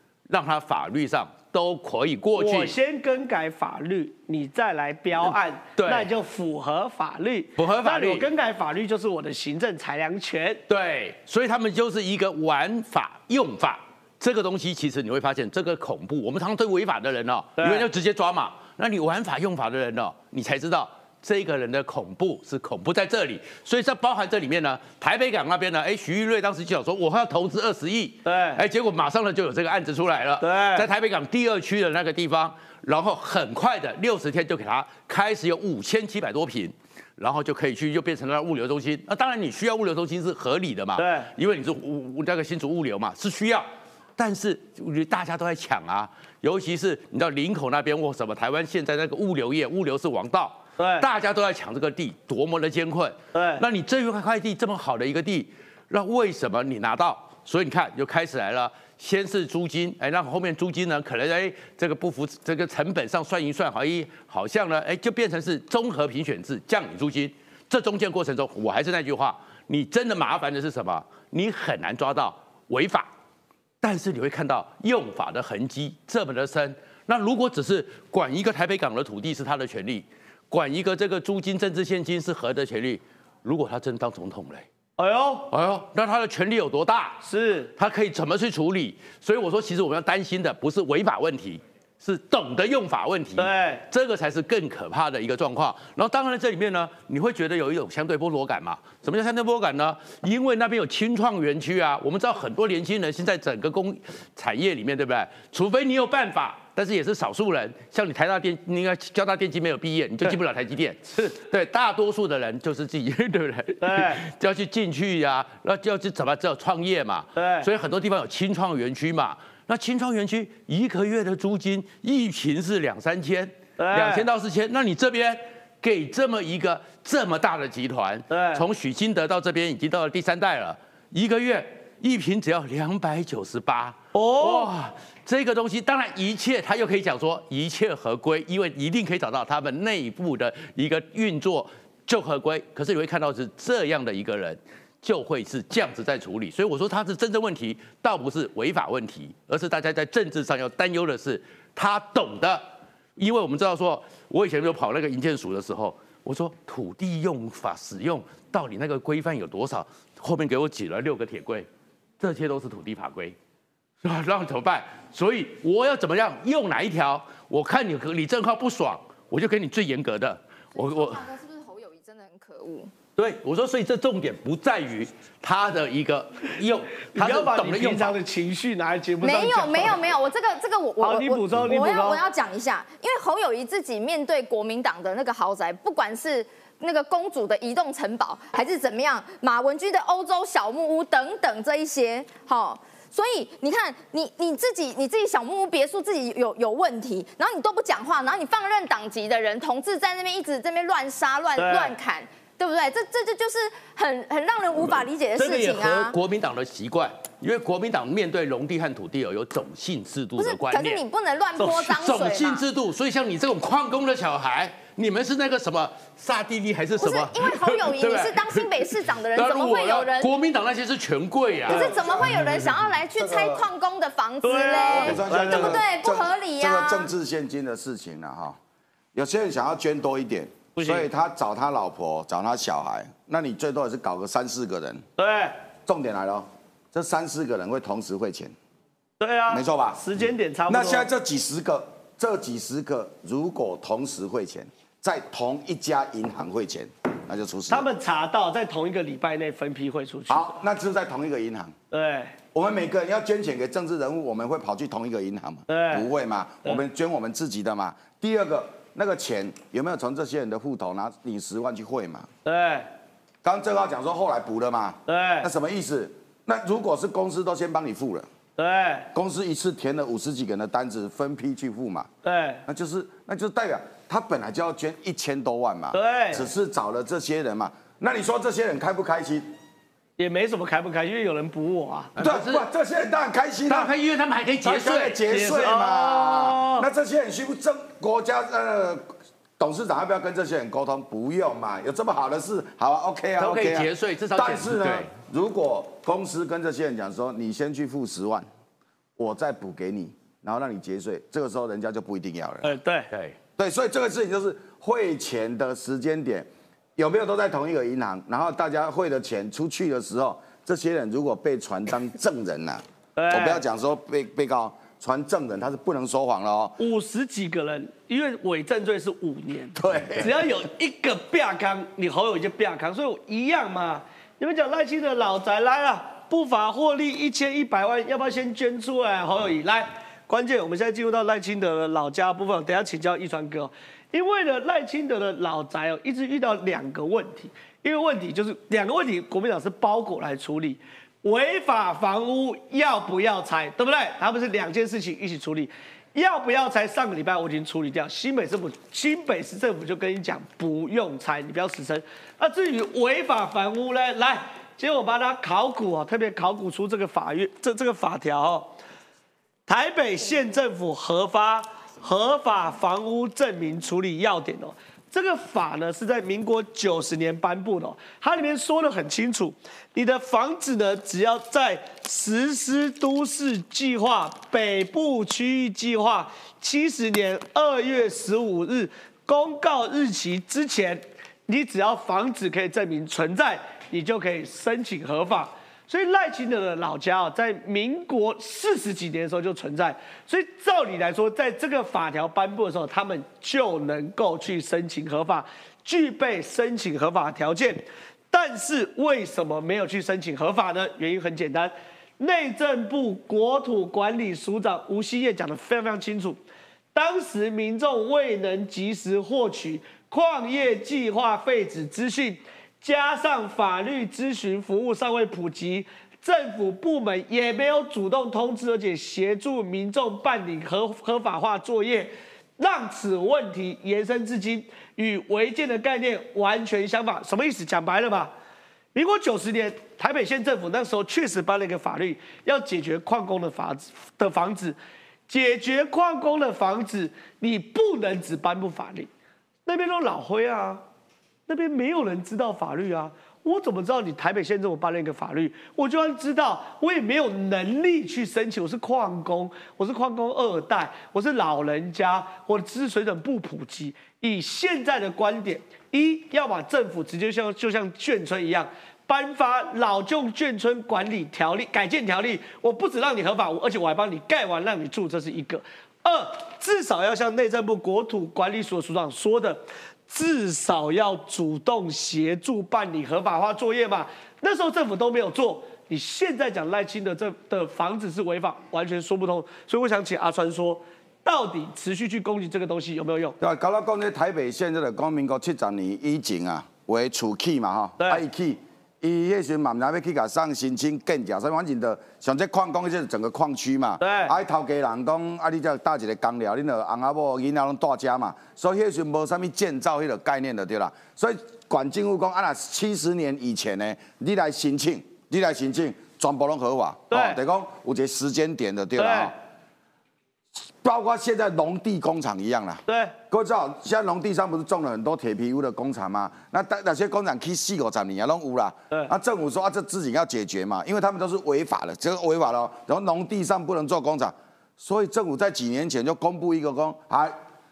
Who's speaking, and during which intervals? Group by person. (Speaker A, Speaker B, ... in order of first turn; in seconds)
Speaker A: 0.3-2.8, 5.2-6.1, 7.6-8.3, 10.7-73.1, 73.8-84.7, 85.5-87.2, 87.8-152.7, 153.2-161.7, 162.2-163.3, 164.0-171.3, 173.2-178.2, 205.4-211.0, 211.6-221.9, 282.1-282.6, 283.7-285.2, 293.4-295.1, 303.1-303.4
Speaker B: 2.4-10.6, 17.6-17.9, 28.2-28.6, 30.4-30.9, 41.0-41.3, 50.8-51.0, 53.3-53.6, 85.0-85.5, 87.2-87.7, 93.4-93.8, 113.8-114.2, 117.3-117.7, 123.8-124.2, 128.3-128.6, 134.1-134.7, 177.2-180.0, 181.0-182.2, 201.6-201.9, 224.4-225.8, 230.7-231.1, 235.2-235.6, 239.2-241.1, 247.7-250.5, 251.9-252.4, 255.7-256.1, 262.4-262.9, 265.1-265.5, 268.6-269.1, 272.2-272.6, 275.9-276.4, 280.2-282.1, 285.3-286.9, 302.6-303.1, 313.1-313.6, 316.8-358.7, 359.7-406.4, 406.9-428.3, 428.9-434.8, 435.3-439.1, 439.6-440.8, 441.5-483.4, 494.0-494.3, 507.1-507.4, 509.0-509.3, 512.9-513.1
Speaker C: 170.7-172.9, 179.2-206.1, 210.4-212.6, 217.0-220.3, 221.7-227.1
Speaker D: 221.7-222.6, 223.1-223.6, 224.9-228.6, 229.1-235.0, 235.8-238.5, 239.5-240.0, 240.7-247.8, 250.3-251.7, 252.5-262.3, 263.4-268.3, 269.1-272.1, 272.6-279.5, 282.2-283.9, 284.6-289.0, 289.6-298.5, 299.2-302.7, 303.6-316.8, 319.8-320.3, 483.4-509.3, 510.6-527.4